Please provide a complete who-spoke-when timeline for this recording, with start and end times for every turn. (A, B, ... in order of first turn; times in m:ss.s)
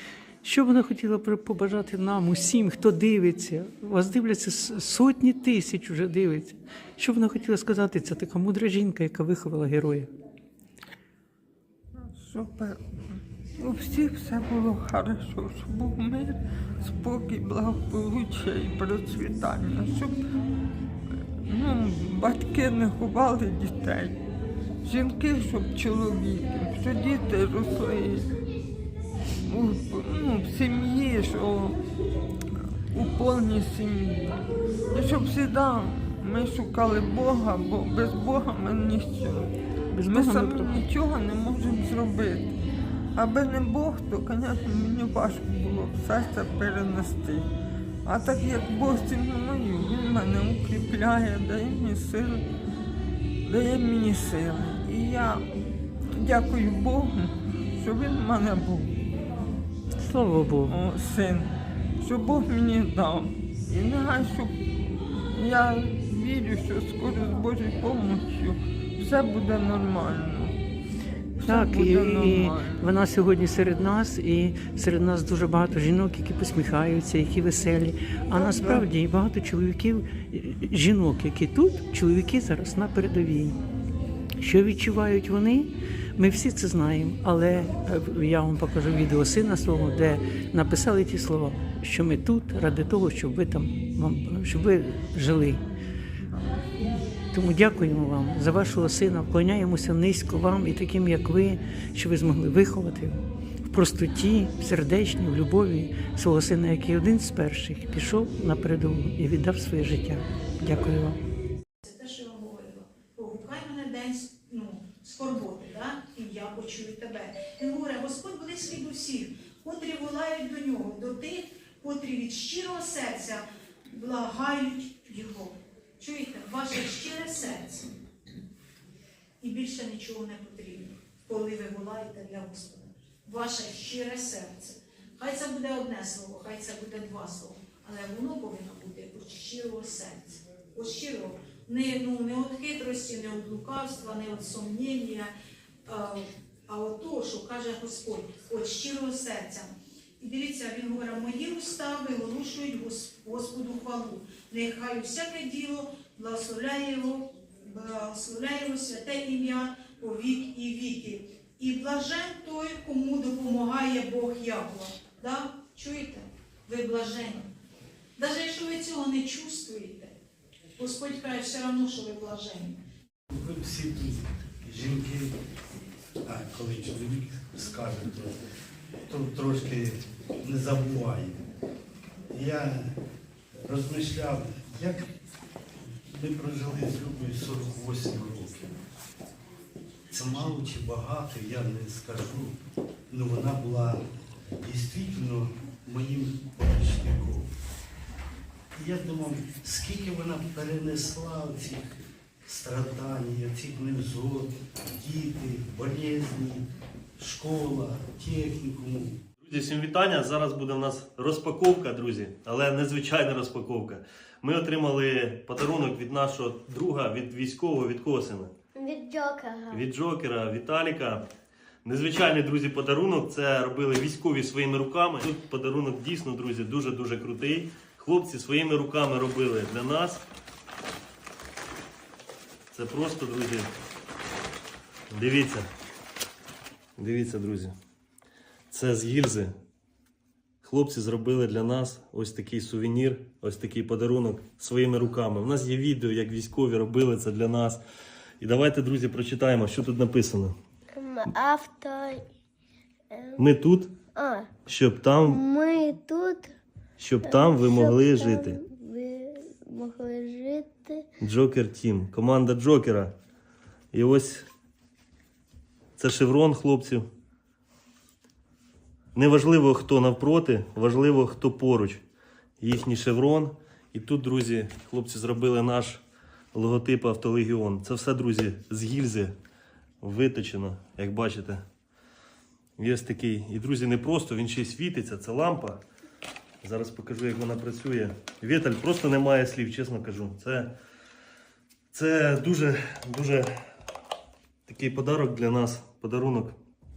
0:00.4-0:10.1 A
0:12.2-0:20.2 B
0:21.4-0:24.2 B
0:24.8-0:28.3 B
0:29.4-0:31.8 B
0:32.9-0:39.5 B
0:39.9-0:40.8 A
0:40.0-0:42.6 B
0:43.1-0:47.4 B
0:48.0-0:52.4 B
0:53.4-0:55.4 B
0:56.1-0:59.0 B
1:00.0-1:00.7 A
1:00.6-1:10.6 B
1:11.4-1:12.9 B
1:11.4-1:23.6 A
1:18.3-1:18.8 B
1:24.4-1:35.6 A
1:37.3-1:51.2 A
1:51.8-2:07.8 C
2:09.4-2:25.3 C
2:25.8-2:47.5 C
2:48.2-2:50.1 C
2:50.8-2:52.8 C
2:53.3-2:55.3 D
2:56.2-2:58.4 D
2:59.1-3:01.4 D
3:02.3-3:02.9 D
3:03.6-3:05.1 D
3:06.1-3:08.7 D
3:10.1-3:12.5 D
3:13.1-3:14.0 D
3:14.6-3:17.5 D
3:18.7-3:21.9 D
3:22.4-3:26.6 D
3:27.2-3:29.2 D
3:29.4-3:38.5 E
3:38.8-3:39.8 F
3:39.7-3:41.3 E
3:41.8-3:50.2 E
3:52.7-3:53.7 E
3:55.1-3:55.6 E
3:57.0-3:57.7 E
3:58.7-3:59.5 E
4:00.6-4:07.8 E
4:08.4-4:10.5 E
4:10.9-4:12.2 F
4:13.1-4:13.4 F
4:13.4-4:13.9 E
4:14.1-4:14.5 F
4:14.6-4:15.4 E
4:15.2-4:16.5 F
4:17.0-4:18.6 E
4:17.2-4:21.0 F
4:21.2-4:23.1 E
4:23.9-4:24.5 E
4:26.0-4:27.0 E
4:29.1-4:32.0 E
4:32.6-4:36.0 E
4:36.5-4:39.3 E
4:40.0-4:41.6 E
4:42.8-4:45.8 E
4:46.6-4:50.7 E
4:51.9-4:53.5 E
4:54.7-4:56.6 E